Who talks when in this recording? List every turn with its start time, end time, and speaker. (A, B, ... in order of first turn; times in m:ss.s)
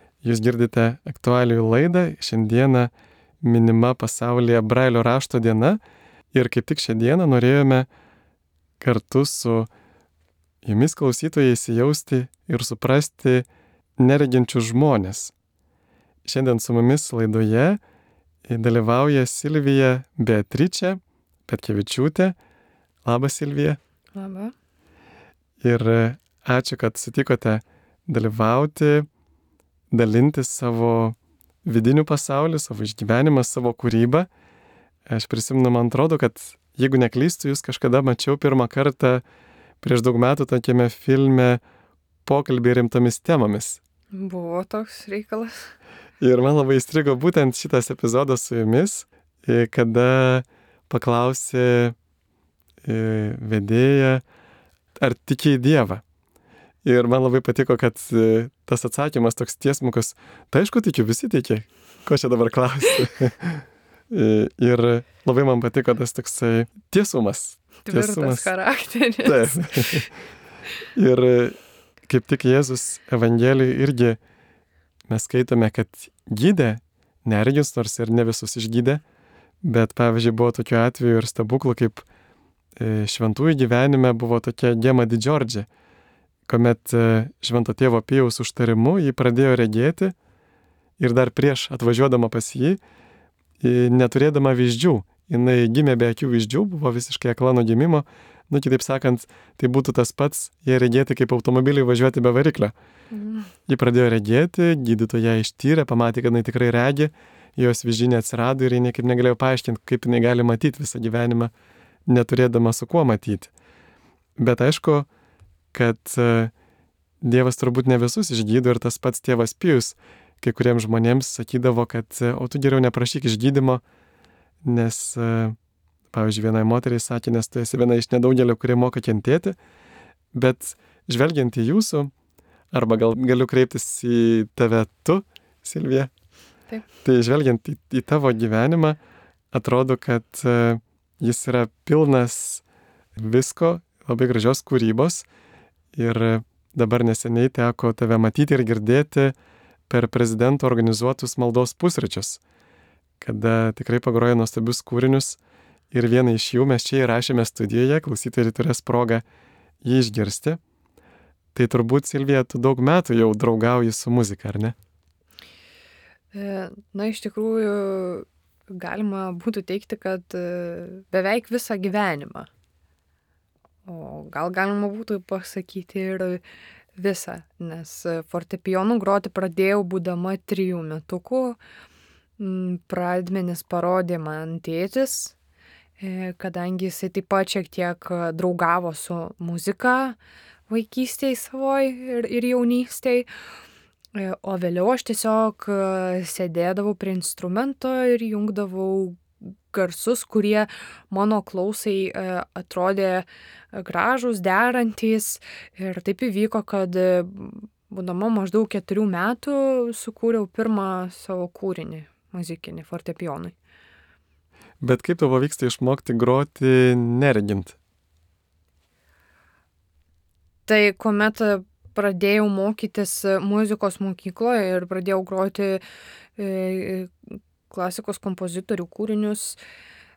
0:00.2-0:02.9 A
0:03.4-0:05.8 A
0:06.3-0:07.9 A
0:08.8-0:09.7 A
0:10.6-0:13.4 A
0:14.0-0:15.3 A
0:16.2-0:17.8 A
0:18.5-0:22.4 A
0:23.0-0:23.8 A
0:24.1-0:24.5 B
0:25.6-0:29.1 A
0:29.9-0:34.3 A
0:35.1-0:39.2 A
0:39.8-0:41.6 A
0:42.2-0:43.8 A
0:44.1-0:45.5 B
0:46.2-0:52.0 A
0:52.8-0:54.2 A
0:55.0-0:56.0 A
0:56.8-1:08.5 A
1:07.8-1:10.0 B
1:09.2-1:10.1 A
1:11.0-1:14.2 A
1:15.1-1:19.0 A
1:19.6-1:22.0 A
1:22.8-1:25.7 A
1:26.5-1:30.1 A
1:31.0-1:32.8 A
1:33.6-1:42.7 A
1:43.1-1:43.5 B
1:43.7-1:51.5 A
1:52.1-1:53.5 A
1:54.4-1:55.1 A
1:55.7-1:56.5 A
1:57.2-2:03.8 A
2:04.6-2:05.6 A
2:06.1-2:09.6 A
2:10.3-2:12.1 A
2:12.7-2:16.1 A
2:17.0-2:19.0 A
2:19.5-2:22.6 A
2:23.2-2:25.2 A
2:25.9-2:29.3 A
2:29.9-2:32.4 A
2:33.2-2:35.4 A
2:35.9-2:39.2 A
2:39.8-2:40.6 A
2:41.5-2:44.8 A
2:46.3-2:52.5 B
2:53.8-2:56.4 B
2:57.0-3:01.6 B
3:02.4-3:05.3 B
3:06.0-3:10.2 B
3:10.7-3:13.3 B
3:14.1-3:33.5 B
3:34.8-3:37.8 A
3:40.7-3:45.8 B
3:46.4-3:49.6 B